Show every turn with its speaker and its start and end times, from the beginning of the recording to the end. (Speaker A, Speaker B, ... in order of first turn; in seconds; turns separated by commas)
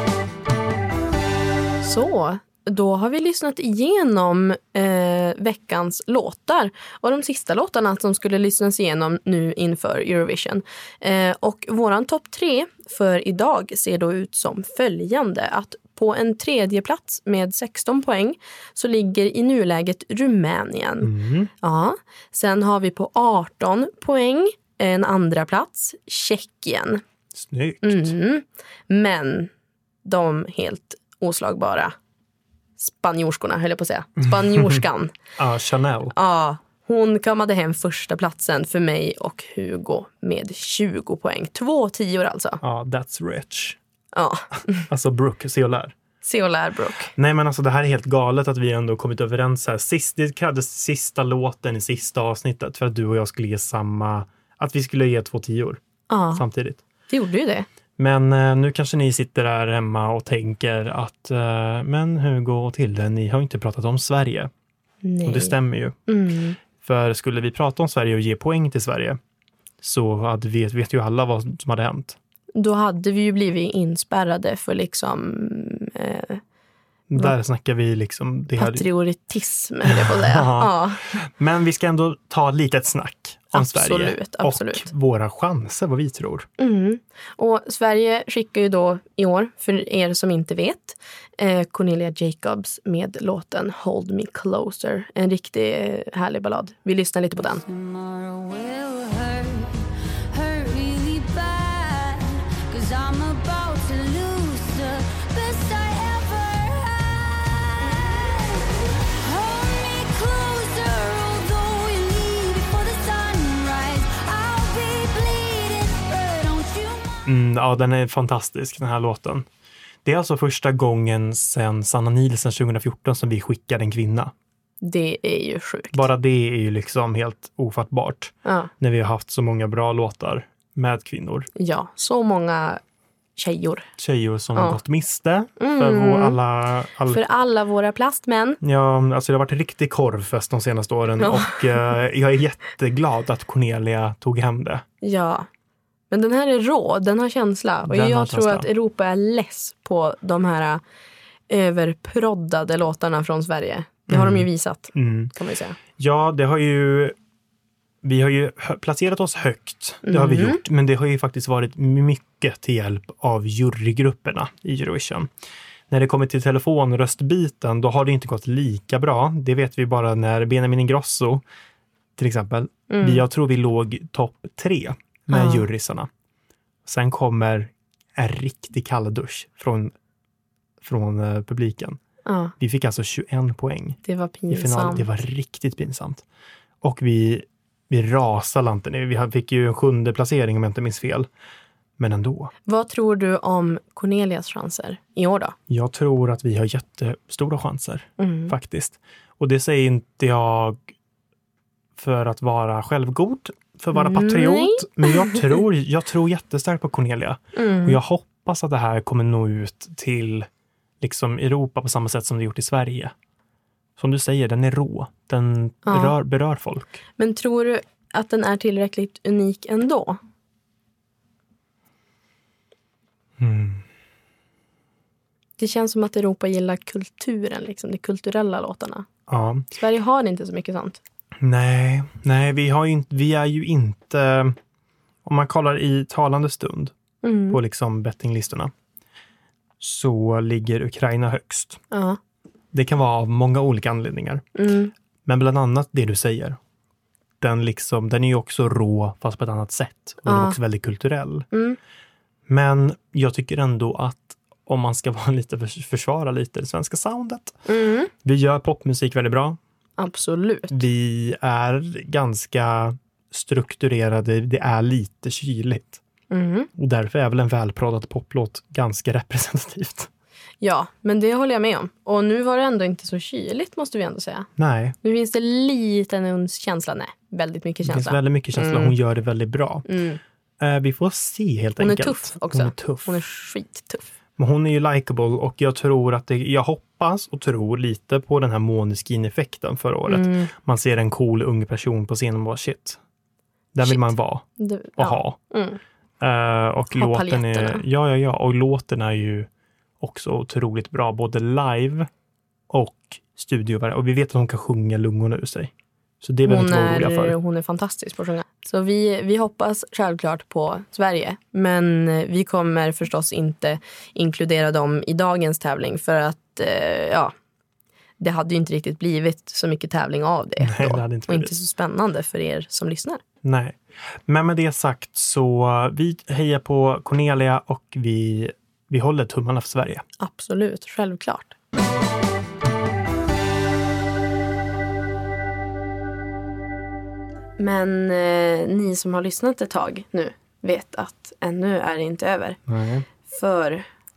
Speaker A: 1.8-27.0, Speaker B: 21.0-21.5, Speaker B: 27.3-28.1, Speaker A: 27.8-29.5, Speaker A: 30.0-32.0, Speaker A: 32.8-35.1, Speaker B: 34.2-34.8, Speaker B: 35.4-36.1, Speaker A: 36.1-42.6, Speaker B: 42.6-43.8, Speaker A: 44.1-44.9, Speaker B: 44.9-46.0, Speaker A: 46.2-47.1, Speaker B: 47.2-55.8, Speaker A: 56.1-56.5, Speaker B: 56.3-56.8, Speaker A: 57.1-57.7, Speaker B: 58.0-64.5, Speaker A: 65.0-66.6, Speaker B: 65.2-66.0, Speaker B: 66.8-69.2, Speaker B: 69.8-72.2, Speaker A: 72.6-76.4, Speaker B: 77.1-78.9, Speaker A: 78.6-81.0, Speaker B: 79.9-86.5, Speaker A: 83.5-84.9, Speaker A: 86.6-97.6, Speaker C: 97.4-117.2, Speaker B: 117.3-119.5, Speaker B: 120.0-124.3, Speaker A: 124.8-126.1, Speaker B: 125.9-131.5, Speaker A: 128.4-128.7, Speaker A: 131.6-132.8, Speaker A: 133.4-133.9, Speaker B: 134.0-137.2, Speaker A: 135.6-136.4, Speaker A: 137.1-138.6, Speaker B: 138.6-144.8, Speaker A: 141.2-141.6, Speaker A: 145.0-145.5, Speaker A: 146.1-150.8, Speaker B: 147.8-148.7, Speaker A: 151.5-155.8, Speaker B: 154.1-155.3, Speaker B: 156.0-157.2, Speaker B: 158.0-165.3, Speaker A: 160.0-160.6, Speaker B: 165.9-171.4, Speaker B: 172.2-176.1, Speaker A: 172.9-173.2, Speaker A: 175.3-175.7, Speaker B: 176.8-179.9, Speaker B: 180.8-182.0, Speaker A: 182.3-182.5, Speaker B: 182.6-184.0, Speaker A: 184.1-185.1, Speaker B: 184.5-186.2, Speaker B: 186.8-191.3, Speaker B: 192.0-192.5, Speaker A: 192.7-195.6, Speaker B: 195.7-200.9, Speaker A: 198.2-198.5, Speaker B: 202.0-210.5, Speaker A: 203.9-205.6, Speaker A: 207.6-208.0, Speaker B: 211.0-213.1, Speaker B: 214.0-217.0, Speaker A: 215.8-216.2, Speaker A: 217.2-220.2, Speaker B: 223.4-223.8, Speaker A: 225.6-229.1, Speaker B: 229.3-229.7, Speaker A: 229.7-231.0, Speaker B: 231.4-234.6, Speaker B: 235.2-236.9, Speaker A: 237.2-237.6, Speaker B: 237.5-238.7, Speaker B: 239.8-241.8, Speaker A: 241.9-242.2, Speaker B: 242.7-244.4, Speaker A: 244.6-244.9, Speaker B: 245.2-246.6, Speaker B: 247.4-251.5, Speaker A: 250.3-250.6, Speaker A: 251.5-251.8, Speaker B: 252.5-257.6, Speaker A: 257.7-258.1, Speaker B: 258.2-259.6, Speaker A: 260.0-260.8, Speaker B: 260.7-266.0, Speaker A: 266.3-266.7, Speaker B: 266.8-270.1, Speaker A: 270.6-274.5, Speaker B: 274.6-274.9, Speaker A: 275.0-278.9, Speaker B: 277.8-279.9, Speaker A: 279.9-280.2, Speaker B: 280.6-283.2, Speaker A: 281.8-284.1, Speaker B: 284.4-293.0, Speaker A: 290.1-290.5, Speaker B: 293.7-294.5, Speaker A: 293.8-295.8, Speaker B: 295.0-295.4, Speaker B: 296.2-299.5, Speaker A: 296.9-297.8, Speaker B: 300.0-302.1, Speaker B: 302.7-307.4, Speaker A: 306.4-317.3, Speaker A: 318.2-323.2, Speaker B: 320.6-321.6, Speaker B: 323.4-330.0, Speaker A: 330.2-331.6, Speaker A: 337.6-342.6, Speaker B: 342.7-343.1, Speaker A: 343.3-343.9